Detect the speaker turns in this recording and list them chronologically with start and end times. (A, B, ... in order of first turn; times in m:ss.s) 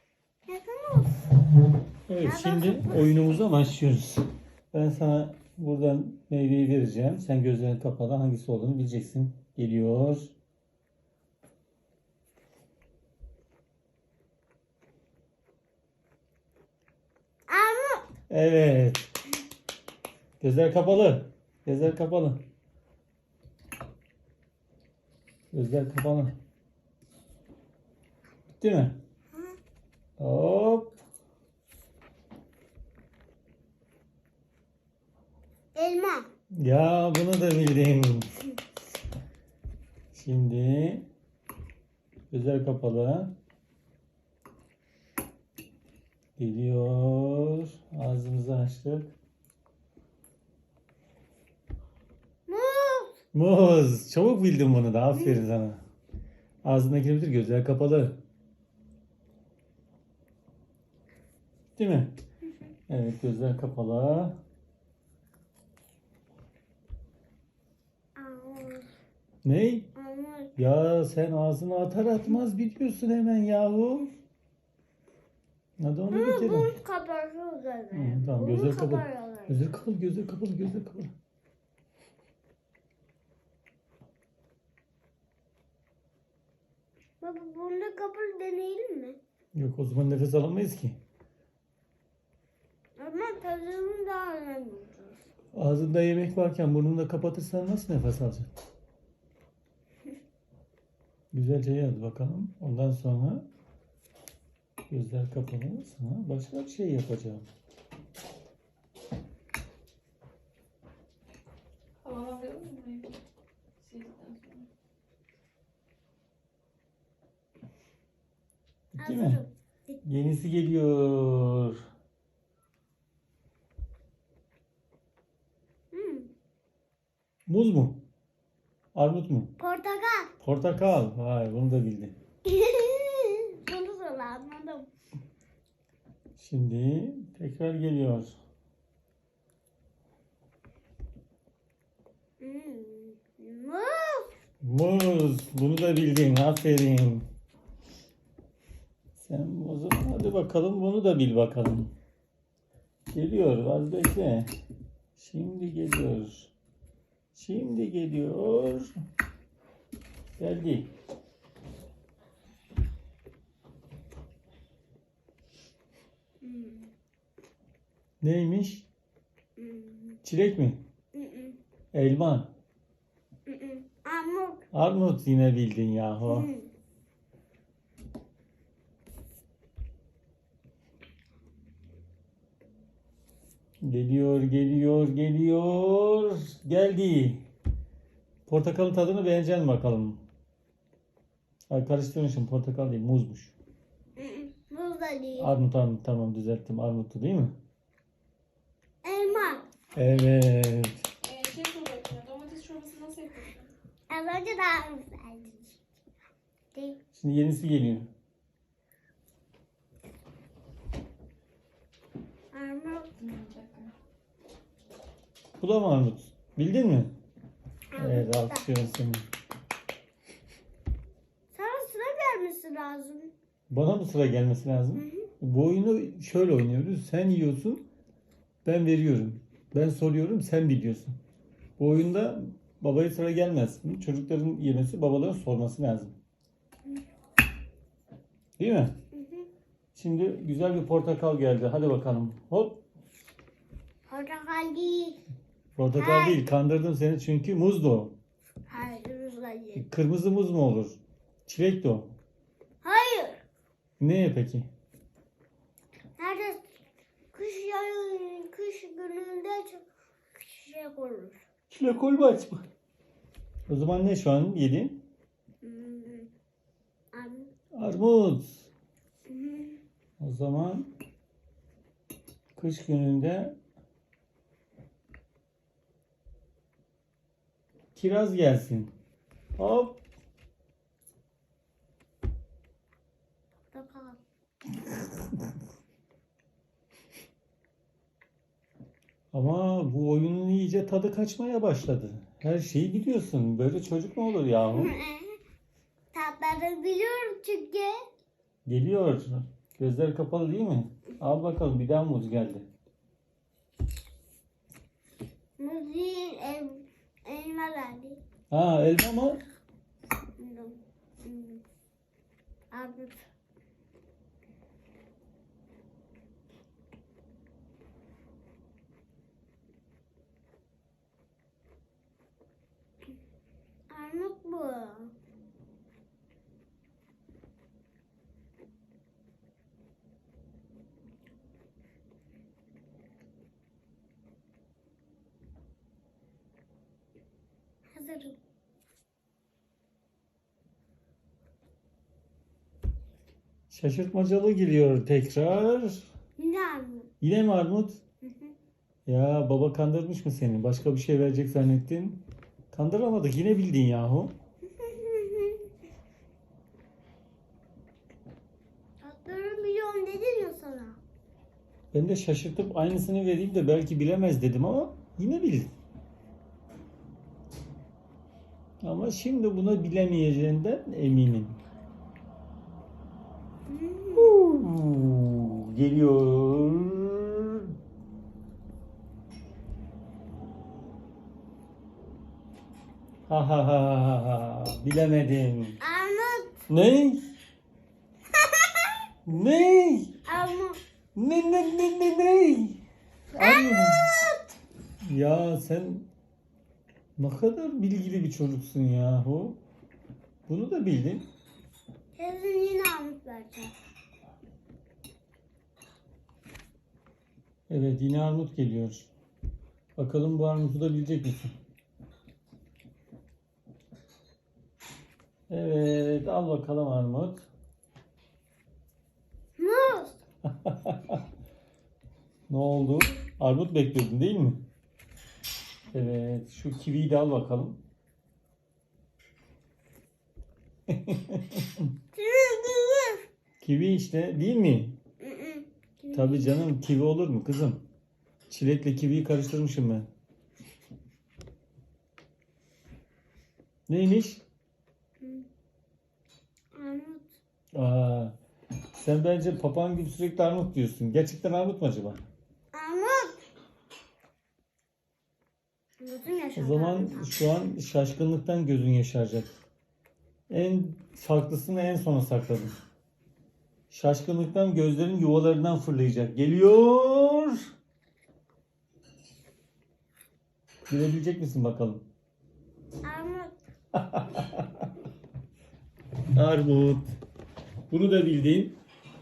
0:00.5-0:01.2 A
0:02.1-0:10.3 B
0:02.2-0:03.0 A
0:17.5-0:18.1 A
0:18.3-0:19.1 B
0:20.4-0:22.4 B
0:25.5-0:26.4 B
0:28.6-0:29.0 B
0:30.2-0:30.9 B
0:35.7-0:36.3 A
0:36.5-0:38.3 B
0:40.1-0:41.1 B
0:42.3-0:43.3 B
0:46.4-0:49.1 B
0:52.5-0:53.1 A
0:53.3-0:55.8 B
0:55.1-0:55.4 A
0:56.6-0:58.2 B
1:01.8-1:02.2 B
1:02.9-1:04.4 B
1:08.2-1:08.9 A
1:09.4-1:09.9 B
1:09.9-1:10.5 A
1:10.6-1:14.1 B
1:15.8-1:16.7 B
1:16.1-1:19.7 A
1:17.9-1:21.1 B
1:27.2-1:29.2 A
1:29.5-1:31.0 B
1:33.0-1:35.2 A
1:35.5-1:38.5 B
1:41.3-1:43.4 B
1:44.9-1:47.4 B
1:52.0-1:53.2 C
1:53.8-1:54.7 C
1:58.9-1:59.4 B
1:59.0-2:00.0 A
2:00.0-2:01.8 B
2:05.9-2:06.3 A
2:07.5-2:08.0 B
2:08.9-2:09.5 B
2:09.6-2:10.3 A
2:10.4-2:12.1 B
2:12.4-2:14.9 A
2:16.4-2:18.4 B
2:22.4-2:24.3 A
2:24.6-2:27.3 B
2:29.2-2:31.9 B
2:33.1-2:34.5 B
2:35.2-2:36.5 B
2:37.3-2:39.0 B
2:40.4-2:40.9 B
2:46.4-2:46.9 A
2:48.2-2:48.9 B
2:49.6-2:50.2 A
2:50.2-2:50.8 B
2:51.1-2:51.6 A
2:51.9-2:52.5 B
2:53.4-2:54.6 A
2:54.7-2:56.5 B
2:56.2-2:56.7 A
3:03.8-3:07.4 B
3:08.5-3:10.2 B
3:11.7-3:13.5 B
3:14.2-3:15.5 A
3:15.4-3:17.6 B
3:19.0-3:19.6 A
3:19.9-3:21.0 B
3:21.2-3:23.7 C
3:24.1-3:25.8 A
3:26.7-3:27.0 A
3:27.1-3:28.1 B
3:32.5-3:33.1 A
3:33.2-3:33.9 C
3:35.6-3:37.1 B
3:37.9-3:38.7 A
3:38.0-3:39.3 B
3:41.5-3:43.3 A
3:43.7-3:47.8 B
3:44.9-3:45.3 A
3:48.6-3:51.1 B
3:51.8-3:56.2 B
3:58.6-3:58.9 B
3:59.1-3:59.5 A
3:59.9-4:02.8 B
4:04.1-4:05.2 A
4:05.8-4:08.1 B
4:05.9-4:06.4 A
4:08.7-4:09.8 A
4:09.7-4:12.1 B
4:12.8-4:13.4 A
4:14.0-4:14.7 B
4:16.2-4:16.6 A
4:17.3-4:21.4 A
4:21.7-4:22.6 B
4:23.7-4:25.0 B
4:25.6-4:26.3 A
4:27.1-4:27.5 A
4:27.7-4:28.7 B
4:29.3-4:29.8 A
4:30.2-4:30.9 B
4:32.6-4:33.6 B
4:37.9-4:38.9 B
4:39.6-4:40.0 B
4:43.7-4:44.2 A
4:49.3-4:54.9 B
4:54.7-4:55.4 A
4:56.1-4:58.0 A
4:58.6-5:02.7 B
5:05.6-5:08.2 A
5:08.5-5:09.4 B
5:10.4-5:11.6 A
5:12.7-5:13.2 A
5:23.9-5:25.1 A
5:37.9-5:38.4 A
5:43.7-5:46.1 B
5:46.4-5:47.1 A
5:47.2-5:48.0 B
5:48.2-5:48.5 A
5:49.0-5:54.3 B
5:54.7-5:55.6 A
5:59.0-6:01.0 A
6:01.9-6:05.7 B
6:08.8-6:11.6 B
6:13.7-6:14.3 A
6:14.1-6:17.7 B
6:23.3-6:25.8 B
6:25.8-6:26.5 A
6:26.7-6:27.3 B
6:28.3-6:28.9 A
6:29.2-6:30.1 B
6:30.2-6:30.8 A
6:31.1-6:32.8 B
6:33.3-6:34.1 B
6:33.4-6:34.5 A
6:35.0-6:36.1 B
6:37.2-6:39.6 B
6:40.5-6:41.2 B
6:42.1-6:43.7 A
6:47.7-6:49.1 B
6:50.0-6:51.5 B
6:55.5-6:57.5 B
6:59.6-7:00.2 A
7:00.4-7:01.2 B
7:02.5-7:04.6 B
7:05.9-7:07.8 B
7:10.9-7:11.8 B
7:12.1-7:13.2 A
7:13.6-7:15.0 B
7:15.2-7:16.5 A
7:16.1-7:17.8 B
7:18.5-7:20.1 B
7:23.9-7:24.4 B
7:25.2-7:25.4 A
7:26.7-7:27.3 A
7:27.7-7:28.4 B
7:28.9-7:32.2 B
7:32.7-7:33.4 A
7:36.0-7:37.4 A
7:36.5-7:39.5 B
7:40.5-7:42.7 B
7:43.9-7:47.7 B
7:50.9-7:52.0 B
7:53.0-7:53.5 A
7:53.9-7:54.9 B
7:56.3-7:57.1 B
7:57.9-7:58.8 B